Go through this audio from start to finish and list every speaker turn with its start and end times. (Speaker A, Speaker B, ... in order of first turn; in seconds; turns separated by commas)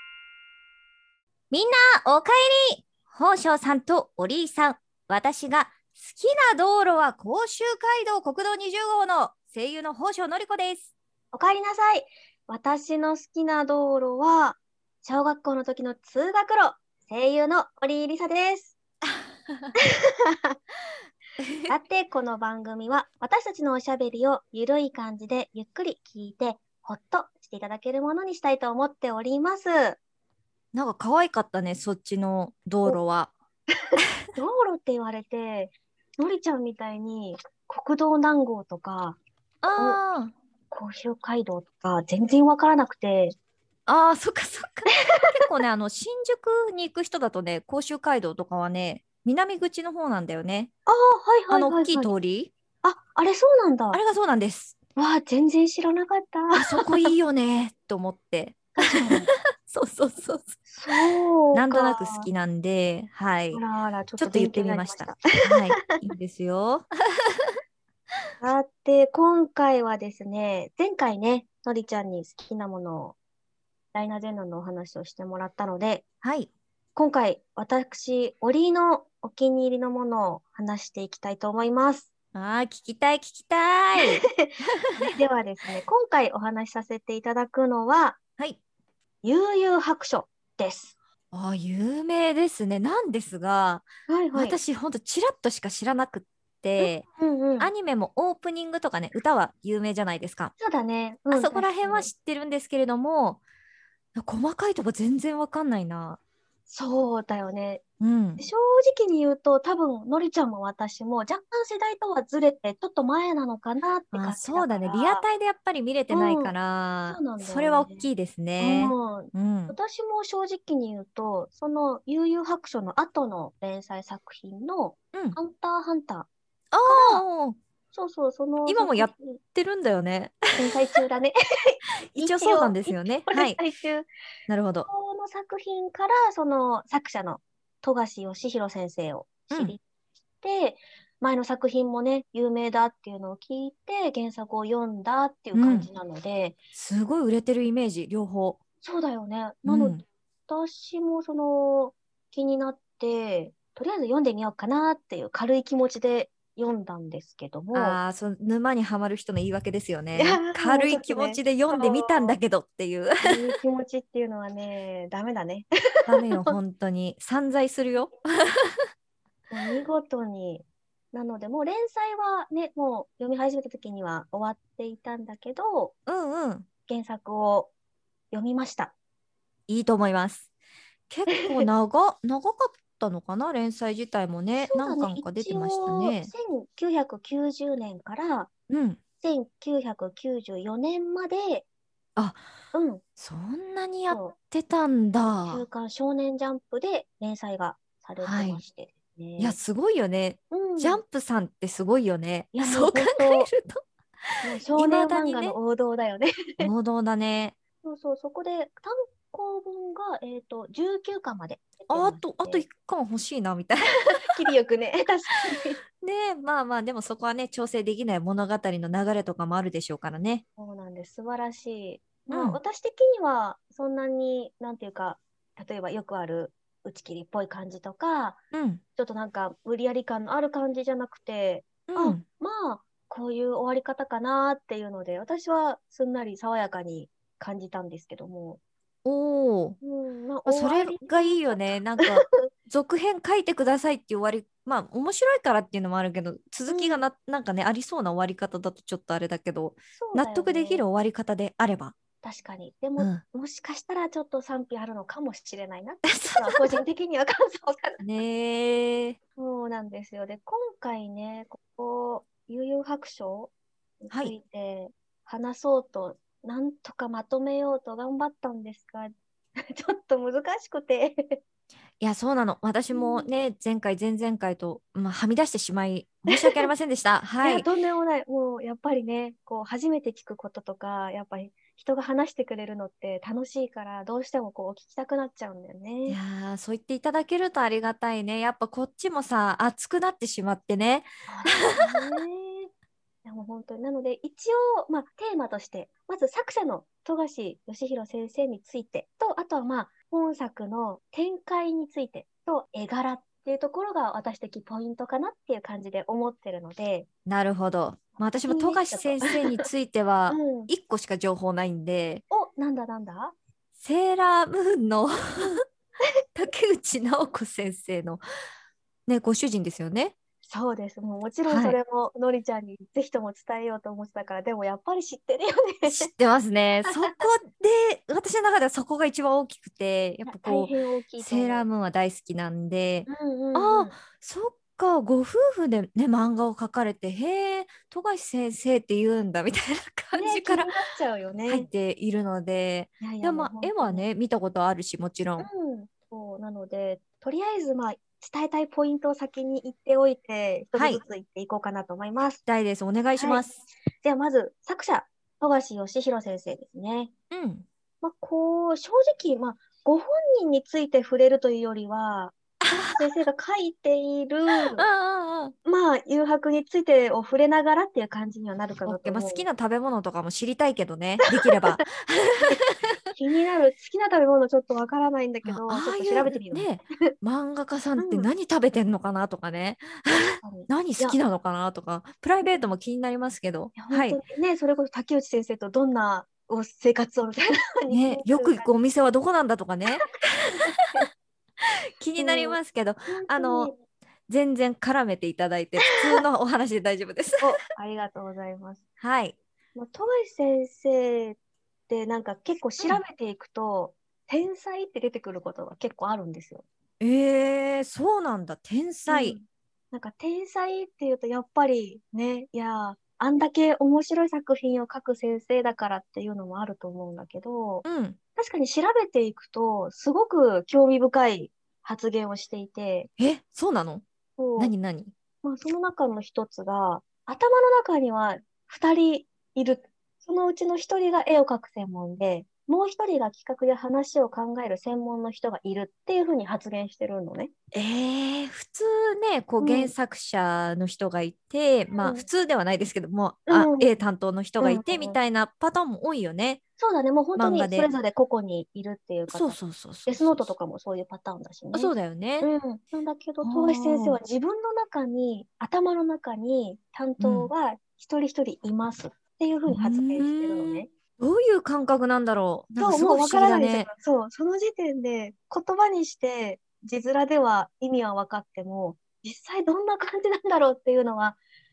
Speaker A: 1.5-10.9, Speaker B: 11.3-18.8, Speaker A: 19.1-19.7, Speaker A: 21.4-21.8, Speaker B: 21.7-30.0, Speaker A: 30.7-33.3, Speaker B: 34.0-39.2, Speaker A: 39.6-40.3, Speaker B: 39.8-40.0, Speaker B: 40.7-43.4, Speaker A: 43.9-50.7, Speaker B: 50.9-52.1, Speaker A: 51.5-52.5, Speaker B: 52.8-54.0, Speaker A: 53.9-54.8, Speaker B: 55.0-57.1, Speaker A: 56.5-60.6, Speaker B: 58.8-59.3, Speaker B: 60.7-62.3, Speaker A: 61.5-63.6, Speaker B: 63.5-65.3, Speaker A: 64.2-66.9, Speaker B: 68.4-73.2, Speaker B: 73.9-76.0, Speaker A: 76.2-76.5, Speaker B: 77.0-82.1, Speaker A: 82.3-84.9, Speaker B: 84.0-84.5, Speaker B: 85.0-88.2, Speaker B: 89.2-91.0, Speaker A: 91.3-97.1, Speaker B: 94.1-94.6, Speaker B: 96.8-97.7, Speaker A: 97.6-100.5, Speaker B: 100.6-102.1, Speaker A: 101.3-103.4, Speaker A: 104.2-106.2, Speaker B: 106.7-107.8, Speaker A: 108.0-108.4, Speaker B: 108.4-115.2, Speaker A: 114.1-119.8, Speaker B: 116.1-116.5, Speaker B: 117.1-118.1, Speaker B: 118.6-126.3, Speaker A: 126.7-127.6, Speaker B: 126.8-127.2, Speaker B: 127.9-129.4, Speaker A: 128.7-130.6, Speaker B: 130.6-134.1, Speaker A: 132.2-133.6, Speaker A: 134.5-134.9, Speaker B: 134.8-139.8, Speaker A: 139.5-139.8, Speaker B: 140.4-146.6, Speaker A: 145.5-145.9, Speaker A: 146.7-148.6, Speaker B: 148.8-150.0, Speaker A: 149.7-150.0, Speaker B: 150.5-158.0, Speaker A: 157.7-163.5, Speaker B: 160.2-162.4, Speaker B: 163.3-165.7, Speaker A: 166.1-168.8, Speaker B: 166.2-166.6, Speaker B: 169.5-175.9, Speaker A: 176.1-176.7, Speaker B: 176.9-177.7, Speaker B: 178.3-178.9, Speaker A: 179.7-180.5, Speaker A: 181.1-186.3, Speaker B: 181.3-181.7, Speaker B: 184.6-188.5, Speaker A: 188.7-189.0, Speaker B: 189.2-191.7, Speaker A: 192.2-192.4, Speaker B: 192.7-193.0, Speaker A: 193.2-195.6, Speaker B: 194.1-194.4, Speaker B: 195.5-199.6, Speaker A: 198.2-198.6, Speaker A: 199.4-203.8, Speaker B: 200.5-201.0, Speaker B: 202.5-203.5, Speaker B: 204.4-206.7, Speaker A: 204.8-205.6, Speaker A: 206.6-207.6, Speaker B: 207.8-212.7, Speaker A: 211.9-214.0, Speaker B: 214.2-215.8, Speaker A: 216.0-220.4, Speaker B: 220.6-228.4, Speaker A: 222.3-222.6, Speaker A: 228.5-228.8, Speaker B: 229.0-238.6, Speaker A: 231.9-232.2, Speaker A: 239.1-239.8, Speaker B: 239.8-242.5, Speaker A: 240.5-251.9, Speaker B: 246.7-247.1, Speaker B: 250.0-250.9, Speaker B: 252.2-258.0, Speaker A: 256.1-256.8, Speaker A: 258.0-259.2, Speaker B: 259.4-271.4, Speaker A: 272.0-277.7, Speaker B: 272.9-273.3, Speaker B: 276.3-276.7, Speaker B: 277.4-286.2, Speaker A: 286.1-291.7, Speaker B: 291.3-292.7, Speaker B: 293.2-307.1, Speaker A: 307.3-312.2, Speaker B: 308.5-309.7, Speaker B: 310.3-310.7, Speaker B: 312.3-313.4, Speaker A: 313.8-315.5, Speaker A: 316.4-318.2, Speaker A: 319.1-320.1, Speaker B: 320.5-326.1, Speaker A: 321.5-321.8, Speaker A: 325.9-340.7, Speaker B: 326.8-327.3, Speaker B: 330.2-331.7, Speaker B: 333.1-334.0, Speaker B: 340.1-341.7, Speaker A: 341.5-345.5, Speaker B: 343.0-344.1, Speaker B: 345.4-352.4, Speaker A: 350.8-351.0, Speaker A: 352.5-353.7, Speaker B: 353.2-353.4, Speaker B: 354.0-357.1, Speaker A: 357.3-357.7, Speaker B: 358.0-364.9, Speaker A: 362.6-363.0, Speaker A: 364.8-365.5, Speaker B: 365.6-369.5, Speaker A: 368.8-373.0, Speaker B: 371.4-371.8, Speaker B: 373.1-377.1, Speaker A: 375.4-384.2, Speaker B: 378.0-378.3, Speaker B: 380.4-381.2, Speaker B: 383.8-388.7, Speaker A: 387.9-390.4, Speaker B: 389.9-391.1, Speaker A: 392.0-393.7, Speaker B: 392.2-393.8, Speaker A: 394.3-397.6, Speaker B: 397.4-398.8, Speaker A: 399.0-399.4, Speaker B: 399.8-401.4, Speaker B: 401.9-406.6, Speaker A: 407.0-409.4, Speaker B: 409.1-417.9, Speaker A: 417.9-418.2, Speaker B: 418.4-423.1, Speaker A: 423.2-424.1, Speaker B: 424.4-424.7, Speaker A: 424.6-425.1, Speaker B: 425.4-437.5, Speaker A: 437.7-446.6, Speaker B: 439.6-439.9, Speaker B: 442.0-442.3, Speaker B: 443.5-444.0, Speaker B: 444.6-445.2, Speaker B: 446.8-460.9, Speaker A: 447.4-447.9, Speaker A: 449.3-450.5, Speaker A: 451.7-452.5, Speaker A: 453.4-454.2, Speaker A: 457.2-457.5, Speaker A: 459.7-463.9, Speaker B: 462.8-471.4